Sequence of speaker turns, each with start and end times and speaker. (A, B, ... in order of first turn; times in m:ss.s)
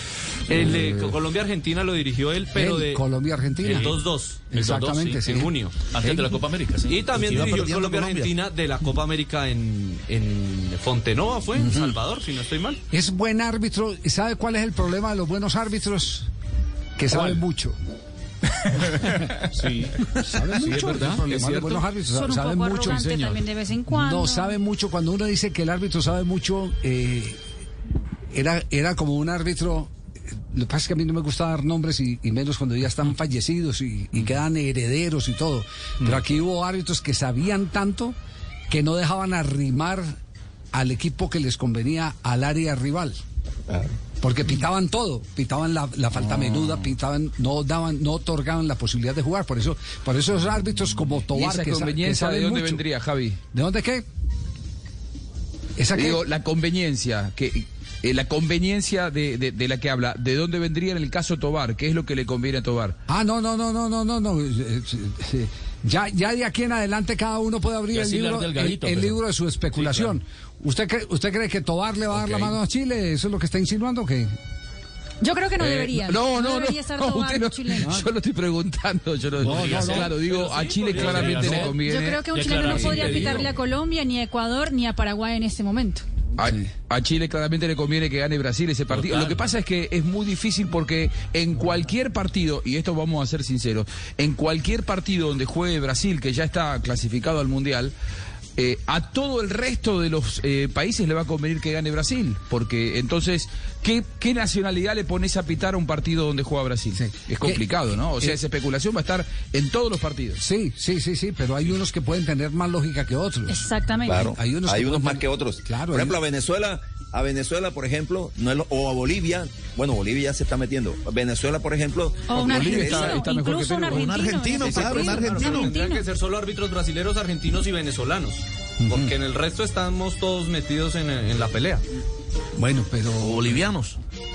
0:00.5-0:03.0 A
0:02.6-0:03.9 B
0:03.6-0:03.9 C
0:03.7-0:04.5 A
0:04.5-0:06.4 B
0:04.5-0:05.3 C
0:05.2-0:05.8 A
0:05.9-0:07.6 C
0:06.8-0:12.8 A
0:07.2-0:08.3 D
0:11.6-0:12.0 B
0:12.9-0:16.3 B
0:17.0-0:17.8 B
0:18.9-0:21.4 C
0:20.2-0:23.2 B
0:20.8-0:21.2 A
0:22.0-0:24.6 E
0:22.9-0:23.3 C
0:23.9-0:27.4 B
0:28.3-0:29.9 B
0:30.5-0:38.2 B
0:38.7-0:40.2 B
0:40.7-0:43.2 B
0:44.2-0:52.8 B
0:51.3-0:53.4 F
0:53.5-0:54.0 B
0:55.8-0:56.2 B
0:55.9-1:03.0 F
1:03.1-1:14.3 B
1:07.9-1:09.2 C
1:09.8-1:10.1 C
1:12.2-1:12.5 C
1:15.2-1:18.0 E
1:15.6-1:22.2 F
1:19.4-1:23.5 C
1:19.5-1:20.1 B
1:19.6-1:21.7 A
1:21.7-1:26.0 E
1:26.4-1:38.0 F
1:28.9-1:29.5 C
1:38.6-1:50.4 F
1:46.9-1:47.7 B
1:50.4-1:53.7 B
1:53.5-1:54.3 E
1:54.1-2:03.2 D
1:54.2-1:56.2 B
2:02.3-2:06.1 E
2:02.3-2:04.2 F
2:03.9-2:05.7 D
2:04.5-2:11.8 A
2:08.8-2:09.1 B
2:12.6-2:13.7 B
2:13.2-2:14.0 C